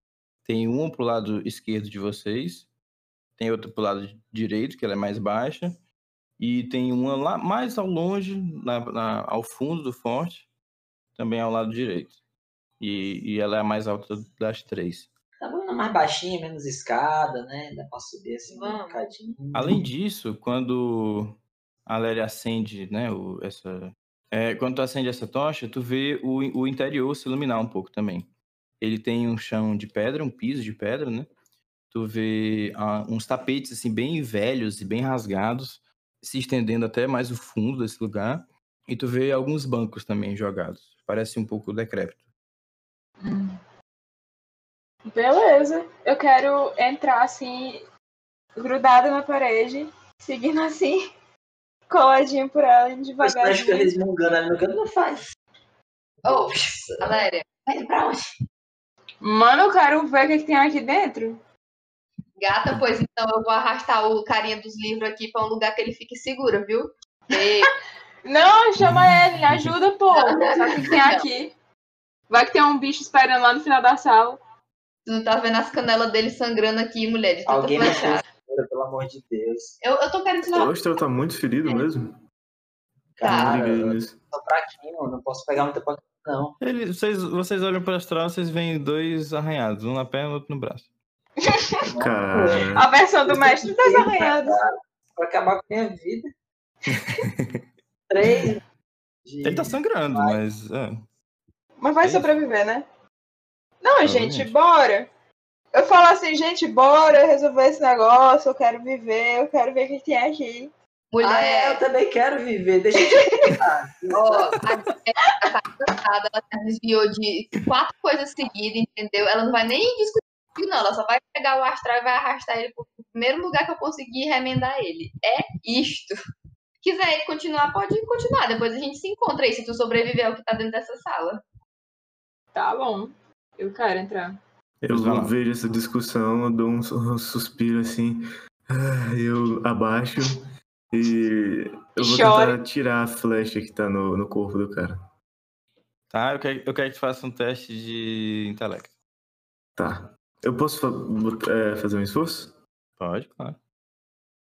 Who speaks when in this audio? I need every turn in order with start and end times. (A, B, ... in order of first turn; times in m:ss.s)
0:00.4-0:02.7 A
0:03.4-0:05.8 A
0:06.4-0:10.5 A
0:11.1-0:12.2 A
0:12.8-0:15.1 A
0:15.4-0:19.8 B
0:18.5-0:19.0 C
0:19.5-0:28.3 A
0:28.8-0:31.3 A
0:31.9-0:42.2 A
0:43.2-0:43.6 D
0:45.0-0:47.9 D
0:48.6-0:51.1 D
0:51.9-0:53.9 D
0:53.2-0:55.2 B
0:56.2-0:57.5 C
0:56.3-0:57.1 B
0:57.6-0:58.3 B
0:59.2-1:01.4 D
1:02.4-1:07.7 C
1:07.3-1:07.7 D
1:08.2-1:11.5 D
1:10.1-1:11.3 C
1:12.3-1:14.4 D
1:15.0-1:18.2 C
1:17.4-1:19.8 B
1:19.8-1:20.7 C
1:20.4-1:22.2 E
1:23.2-1:26.6 B
1:23.2-1:23.6 C
1:23.2-1:24.2 E
1:26.6-1:30.9 A
1:31.4-1:31.9 D
1:31.9-1:32.7 B
1:32.0-1:32.9 E
1:32.7-1:34.6 D
1:33.3-1:36.3 B
1:36.9-1:37.6 A
1:38.1-1:38.6 B
1:39.3-1:40.4 B
1:39.4-1:41.0 A
1:41.8-1:42.9 D
1:42.0-1:42.3 A
1:43.8-1:45.1 D
1:44.0-1:44.5 A
1:45.7-1:50.7 D
1:51.1-1:51.8 C
1:51.2-1:54.6 B
1:53.1-1:53.6 D
1:54.1-2:06.2 C
2:06.8-2:11.4 C
2:12.5-2:14.4 D
2:14.8-2:25.0 E
2:14.9-2:15.3 A
2:22.0-2:22.6 D
2:26.1-2:28.9 A
2:29.8-2:32.6 E
2:33.0-2:33.6 A